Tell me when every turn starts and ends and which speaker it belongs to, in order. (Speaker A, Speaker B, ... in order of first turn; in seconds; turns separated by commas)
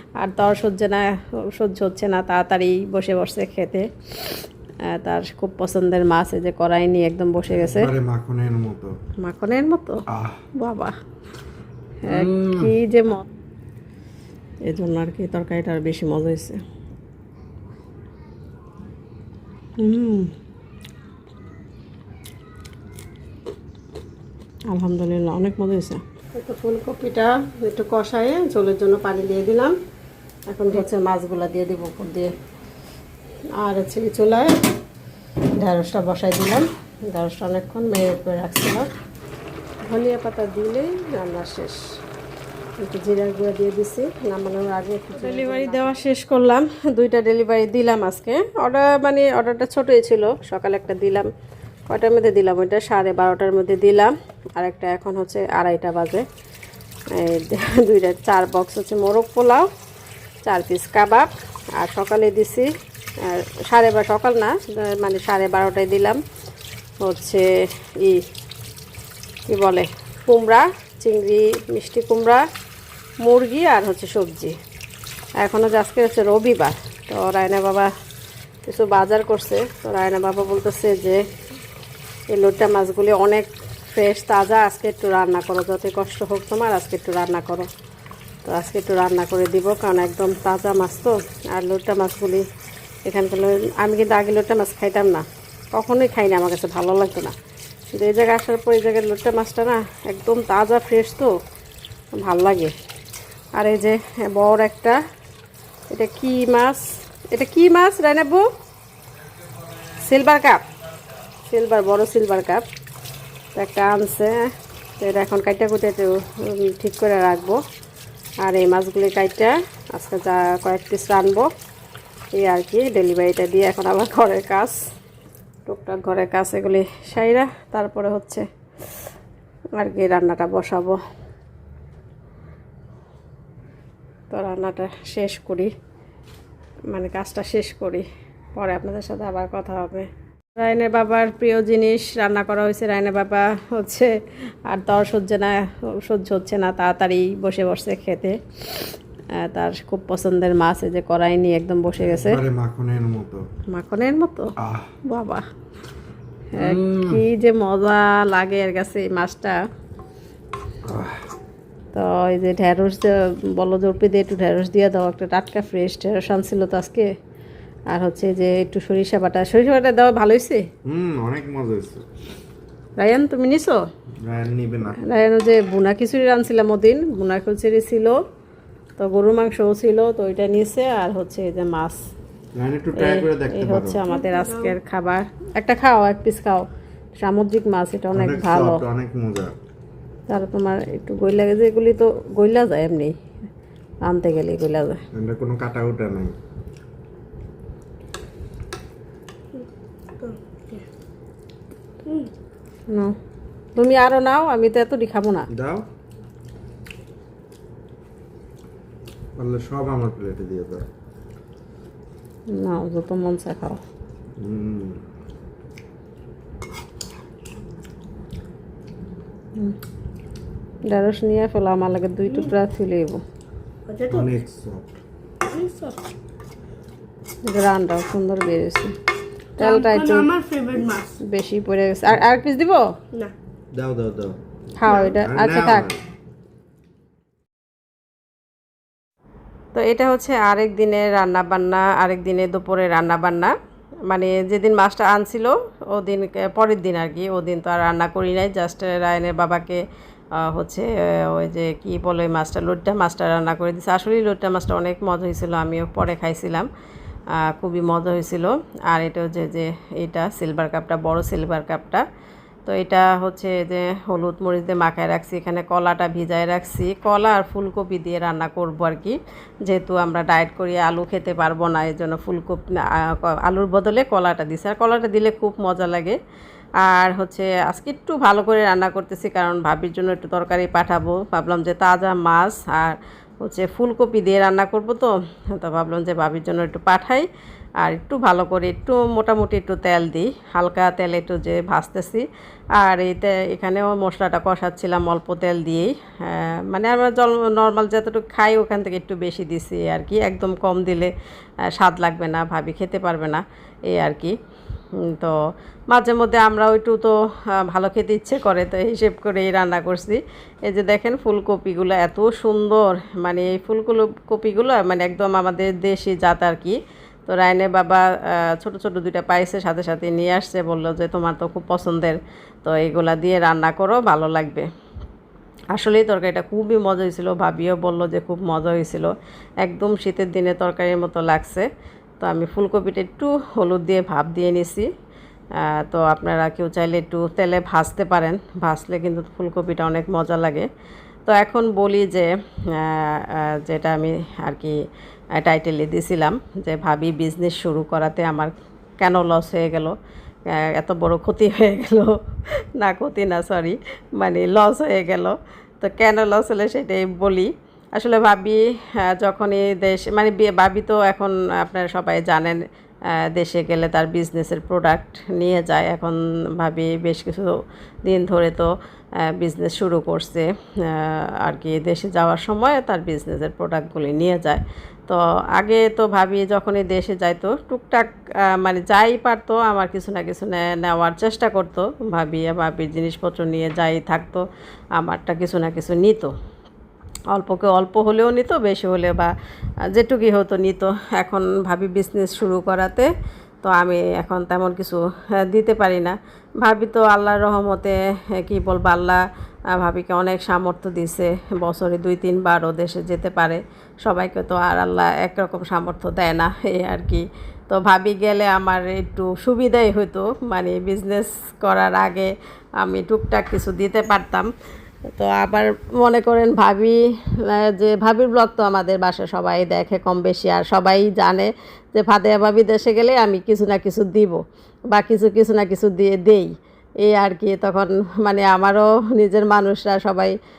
Speaker A: 0.2-7.9, Speaker B: 7.5-8.9, Speaker A: 9.2-10.0, Speaker B: 10.1-10.4, Speaker A: 10.5-10.9, Speaker A: 12.0-13.2, Speaker B: 12.1-12.7, Speaker A: 14.6-16.6, Speaker A: 19.8-20.3, Speaker A: 24.7-29.8, Speaker A: 30.5-32.3, Speaker A: 33.5-34.5, Speaker A: 35.6-38.9, Speaker A: 39.8-41.8, Speaker A: 42.8-51.3, Speaker C: 45.2-45.9, Speaker A: 51.9-56.2, Speaker A: 57.1-59.7, Speaker A: 60.4-66.2, Speaker A: 67.0-68.2, Speaker A: 69.5-72.4, Speaker A: 73.2-74.5, Speaker A: 75.4-77.9, Speaker A: 78.6-81.2, Speaker A: 82.3-87.7, Speaker A: 88.4-92.4, Speaker A: 93.0-97.3, Speaker A: 97.9-101.3, Speaker A: 102.2-102.7, Speaker A: 103.5-105.0, Speaker A: 105.9-108.5, Speaker A: 110.0-110.6, Speaker A: 111.4-112.6, Speaker A: 113.5-117.6, Speaker A: 118.4-121.5, Speaker A: 122.3-124.8, Speaker A: 125.7-128.4, Speaker A: 129.8-131.0, Speaker A: 134.3-135.7, Speaker A: 136.9-144.1, Speaker A: 144.7-152.4, Speaker B: 152.0-153.4, Speaker A: 153.7-154.5, Speaker B: 154.6-154.9, Speaker A: 155.0-155.4, Speaker A: 156.5-159.6, Speaker B: 156.6-157.2, Speaker B: 160.8-161.2, Speaker A: 161.9-167.1, Speaker A: 167.9-170.7, Speaker B: 170.8-172.0, Speaker A: 173.0-173.8, Speaker B: 174.2-175.1, Speaker A: 175.0-178.2, Speaker A: 179.0-182.0, Speaker B: 182.5-184.0, Speaker A: 182.9-188.8, Speaker C: 184.1-184.8, Speaker B: 188.1-189.5, Speaker A: 190.3-193.1, Speaker A: 194.0-195.0, Speaker B: 195.1-196.3, Speaker C: 200.2-200.8, Speaker C: 202.1-202.3, Speaker A: 202.9-203.1, Speaker A: 203.8-205.5, Speaker B: 205.5-205.8, Speaker B: 209.3-210.8, Speaker A: 212.5-213.8, Speaker B: 214.4-215.0, Speaker A: 220.8-223.2, Speaker C: 223.9-224.3, Speaker B: 224.1-225.0, Speaker C: 225.4-226.0, Speaker A: 227.4-228.9, Speaker A: 229.6-230.3, Speaker C: 229.6-231.2, Speaker A: 231.2-232.9, Speaker B: 233.7-234.3, Speaker A: 234.8-235.9, Speaker C: 234.8-235.2, Speaker B: 234.9-236.0, Speaker A: 239.7-243.5, Speaker A: 244.1-249.8, Speaker A: 250.4-256.7, Speaker A: 257.3-262.0, Speaker A: 262.6-276.2, Speaker A: 276.8-287.3, Speaker A: 287.8-292.2, Speaker A: 292.8-301.1, Speaker A: 301.7-304.3, Speaker A: 305.1-305.4, Speaker A: 305.9-324.7, Speaker A: 325.7-331.7, Speaker A: 332.2-334.9, Speaker A: 335.6-340.6, Speaker A: 341.3-344.8, Speaker A: 345.3-349.9, Speaker A: 350.5-352.1, Speaker A: 352.8-368.7, Speaker A: 369.2-384.4, Speaker A: 384.9-386.3, Speaker A: 387.3-389.3, Speaker A: 389.9-393.1, Speaker A: 393.6-399.2, Speaker A: 399.7-414.5, Speaker A: 415.1-430.3